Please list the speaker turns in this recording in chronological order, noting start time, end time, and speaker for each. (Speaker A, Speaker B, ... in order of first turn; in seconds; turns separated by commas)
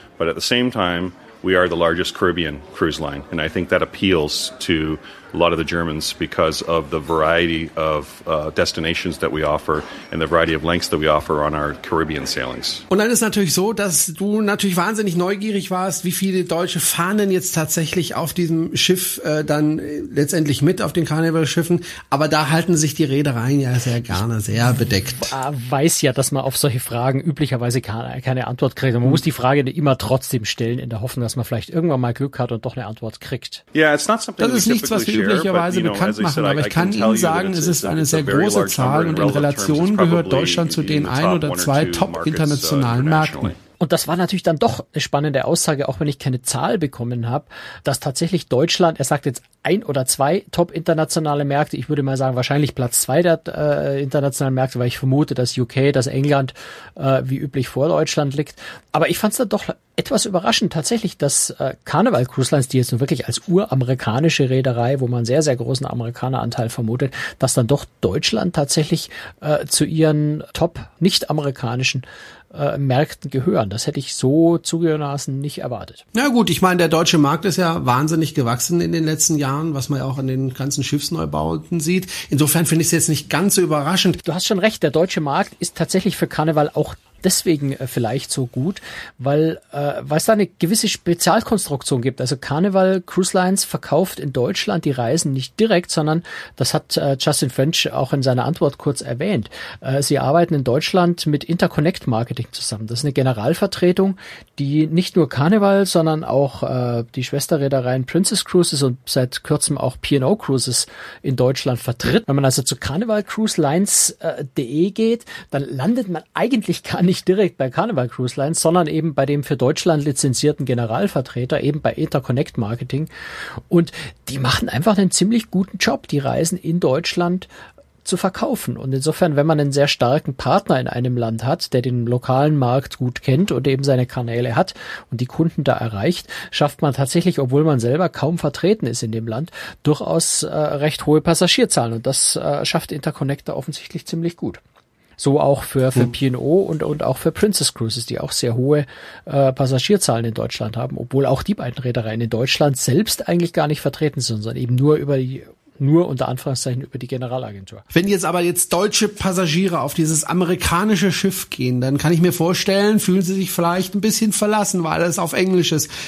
Speaker A: 0.2-12.8, Speaker B: 12.9-25.3, Speaker C: 25.1-33.6, Speaker A: 33.7-43.6, Speaker B: 34.4-43.5, Speaker C: 43.8-76.0, Speaker B: 76.1-84.2, Speaker C: 84.2-123.1, Speaker C: 123.7-127.5, Speaker C: 128.0-144.6, Speaker C: 145.2-157.8, Speaker B: 157.9-165.9